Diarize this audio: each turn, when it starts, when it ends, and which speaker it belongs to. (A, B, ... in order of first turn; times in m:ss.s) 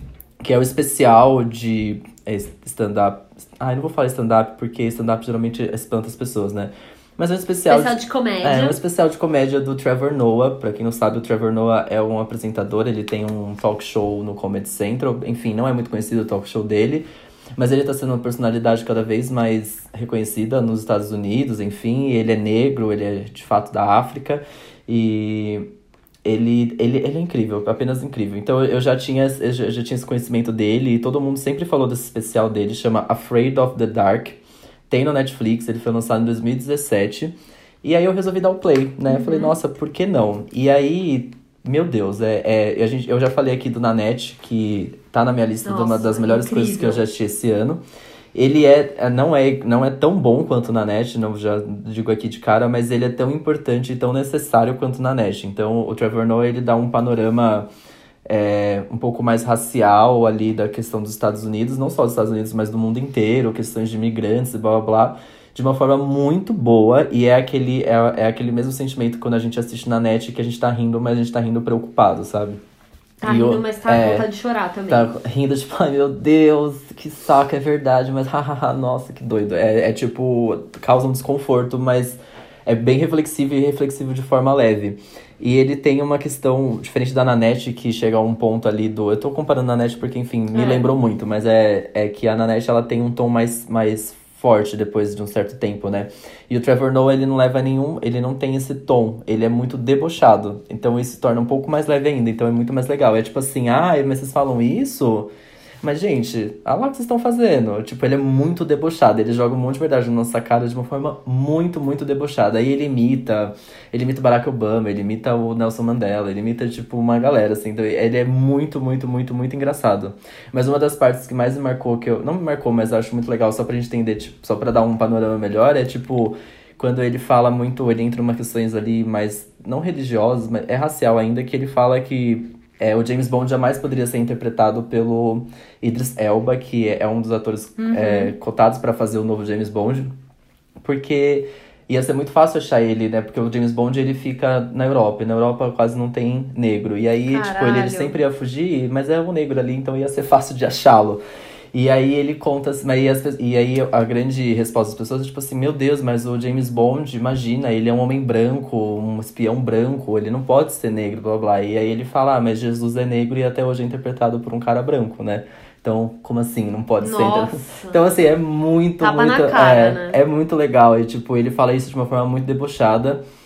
0:00.4-0:25.7 A
0:07.7-0:08.8 B
0:26.2-0:47.8 A
0:39.1-0:39.6 B
0:45.6-0:47.1 B
0:48.3-0:57.7 A
0:58.3-1:12.6 A
1:13.2-1:15.1 B
1:13.2-1:14.3 A
1:14.9-1:45.3 A
1:30.5-1:30.9 B
1:45.8-2:20.1 A
2:17.8-2:18.4 B
2:20.8-2:31.2 A
2:27.3-2:28.1 B
2:31.7-2:53.2 A
2:47.0-2:48.0 B
2:49.0-2:50.2 B